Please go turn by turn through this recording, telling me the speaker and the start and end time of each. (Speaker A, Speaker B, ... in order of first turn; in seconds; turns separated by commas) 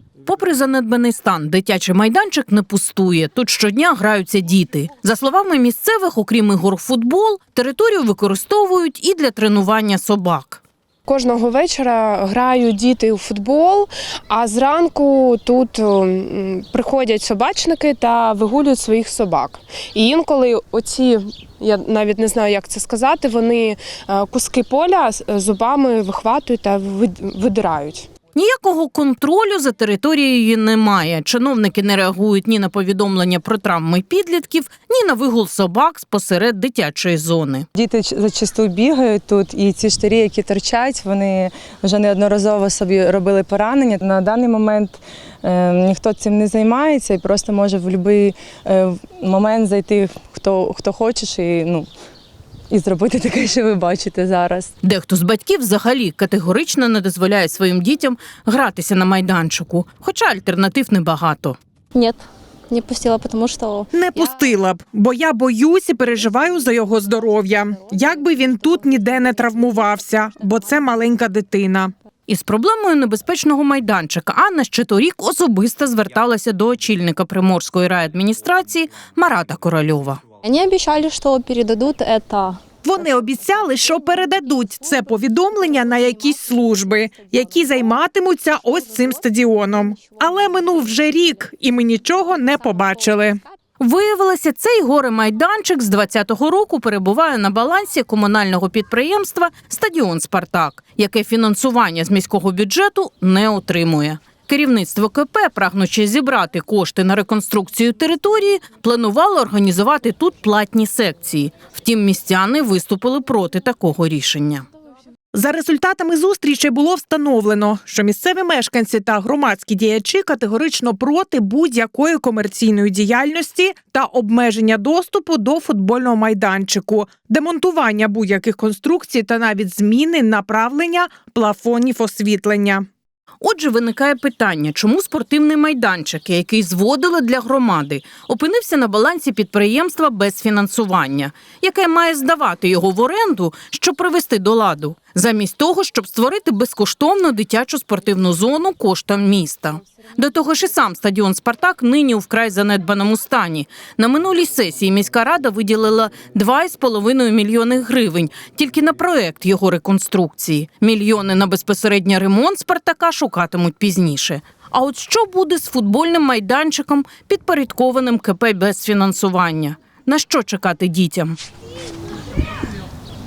Speaker A: 0.2-10.6, Speaker B: 11.1-28.1, Speaker A: 28.4-37.7, Speaker C: 37.8-51.9, Speaker C: 52.7-54.7, Speaker A: 54.8-61.6, Speaker D: 61.9-64.6, Speaker E: 63.9-71.9, Speaker D: 68.1-69.0, Speaker A: 72.3-80.2, Speaker D: 80.4-82.6, Speaker E: 82.8-93.4, Speaker A: 93.8-114.7, Speaker E: 115.3-132.9, Speaker A: 133.4-171.4